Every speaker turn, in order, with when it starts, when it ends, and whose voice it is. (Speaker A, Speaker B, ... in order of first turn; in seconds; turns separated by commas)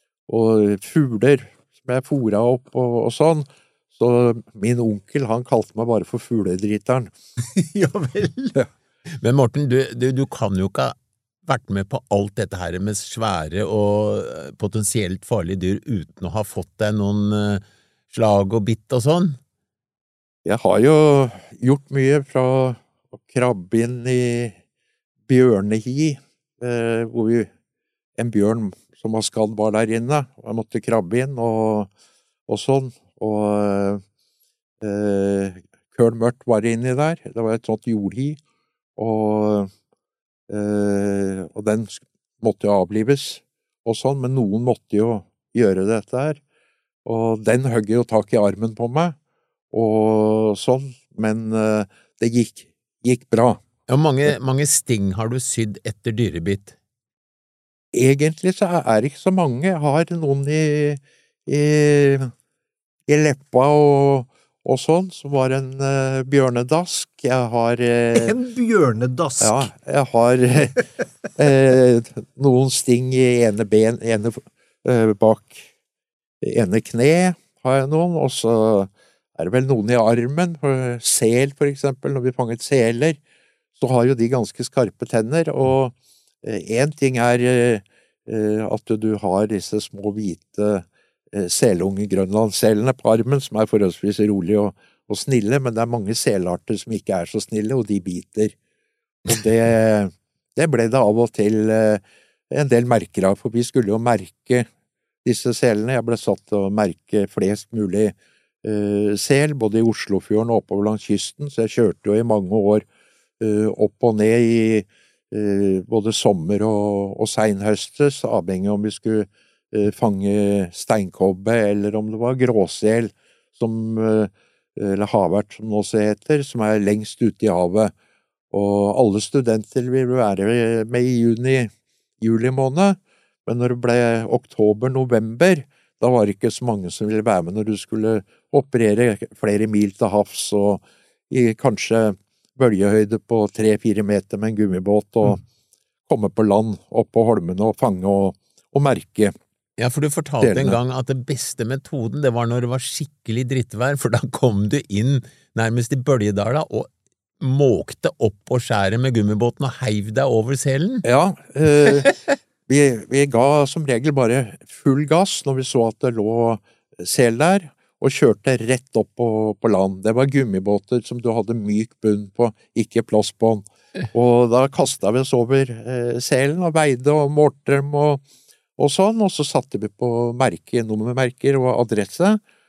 Speaker A: 0.3-7.1, Speaker B: 7.5-8.5, Speaker C: 9.2-19.4, Speaker A: 20.4-24.6, Speaker A: 25.3-27.5, Speaker A: 28.1-31.9, Speaker A: 32.5-34.0, Speaker A: 34.8-38.4, Speaker A: 39.0-39.7, Speaker A: 40.5-46.4, Speaker A: 47.0-49.1, Speaker A: 49.7-53.6, Speaker C: 53.9-56.8, Speaker A: 57.9-62.3, Speaker A: 63.1-68.3, Speaker B: 68.1-69.7, Speaker A: 69.4-75.7, Speaker A: 76.4-83.2, Speaker A: 83.8-98.5, Speaker A: 99.2-104.7, Speaker A: 105.2-112.8, Speaker A: 113.4-127.9, Speaker A: 128.5-145.4, Speaker A: 146.1-149.3, Speaker C: 149.8-156.9, Speaker A: 150.4-150.8, Speaker C: 157.4-161.0, Speaker A: 161.0-162.1, Speaker C: 161.9-162.2, Speaker A: 162.7-178.2, Speaker A: 178.8-182.4